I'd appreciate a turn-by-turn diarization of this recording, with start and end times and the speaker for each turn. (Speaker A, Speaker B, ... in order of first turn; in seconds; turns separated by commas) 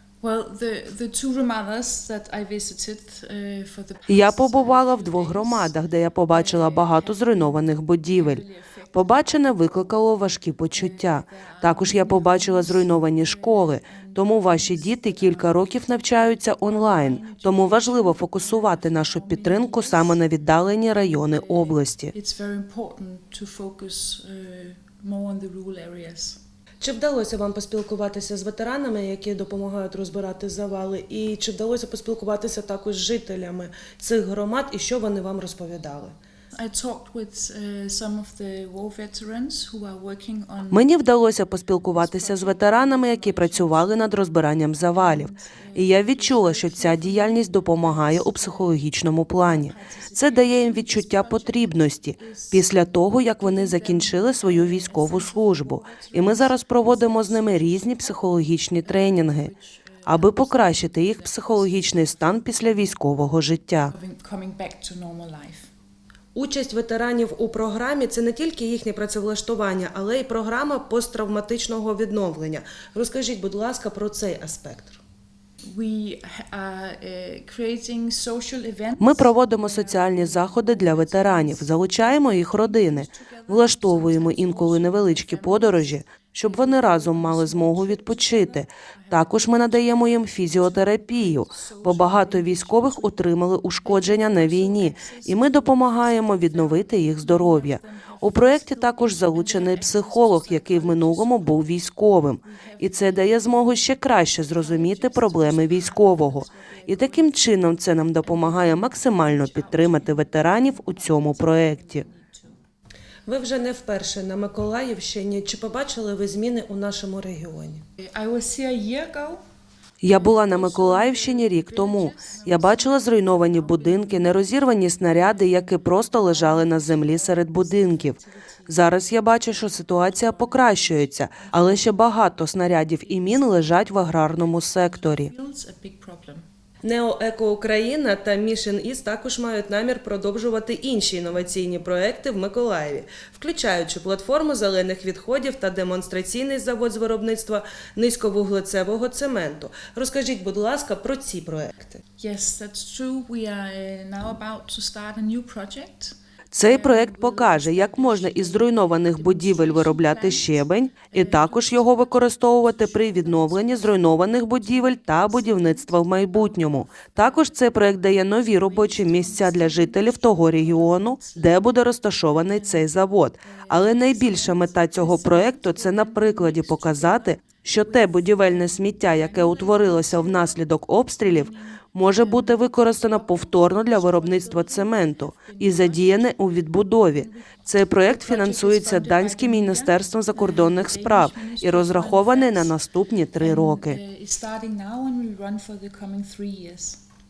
Speaker A: 0.2-5.8, Speaker B: 4.1-8.4, Speaker A: 6.3-9.9, Speaker C: 7.4-8.1, Speaker B: 8.9-22.1, Speaker A: 10.7-20.2, Speaker C: 16.6-16.9, Speaker A: 21.1-26.4, Speaker C: 26.8-36.1, Speaker A: 36.5-40.9, Speaker B: 40.7-49.7, Speaker A: 41.8-44.3, Speaker C: 44.0-44.9, Speaker A: 44.9-48.8, Speaker C: 45.8-49.7, Speaker A: 49.4-63.0, Speaker B: 50.6-59.5, Speaker C: 51.0-51.4, Speaker C: 52.6-54.2, Speaker C: 55.3-56.4, Speaker B: 60.1-63.9, Speaker C: 63.3-63.6, Speaker A: 63.9-65.7, Speaker C: 66.3-75.0, Speaker A: 75.7-101.7, Speaker B: 79.0-85.4, Speaker C: 85.2-86.0, Speaker B: 86.2-88.6, Speaker C: 86.5-88.6, Speaker C: 89.1-90.7, Speaker B: 89.4-91.5, Speaker C: 91.9-92.4, Speaker B: 92.2-97.8, Speaker C: 94.2-94.9, Speaker C: 96.5-96.8, Speaker C: 98.3-99.1, Speaker B: 98.4-112.0, Speaker C: 100.5-100.9, Speaker A: 102.4-112.6, Speaker C: 113.2-117.8, Speaker A: 118.0-119.4, Speaker B: 120.1-135.3, Speaker A: 120.1-132.1, Speaker C: 120.1-121.0, Speaker C: 124.9-126.0, Speaker A: 133.0-136.4, Speaker C: 136.8-152.0, Speaker A: 152.2-171.8, Speaker B: 156.5-187.2, Speaker A: 172.3-192.8, Speaker B: 187.8-194.0, Speaker A: 193.4-197.0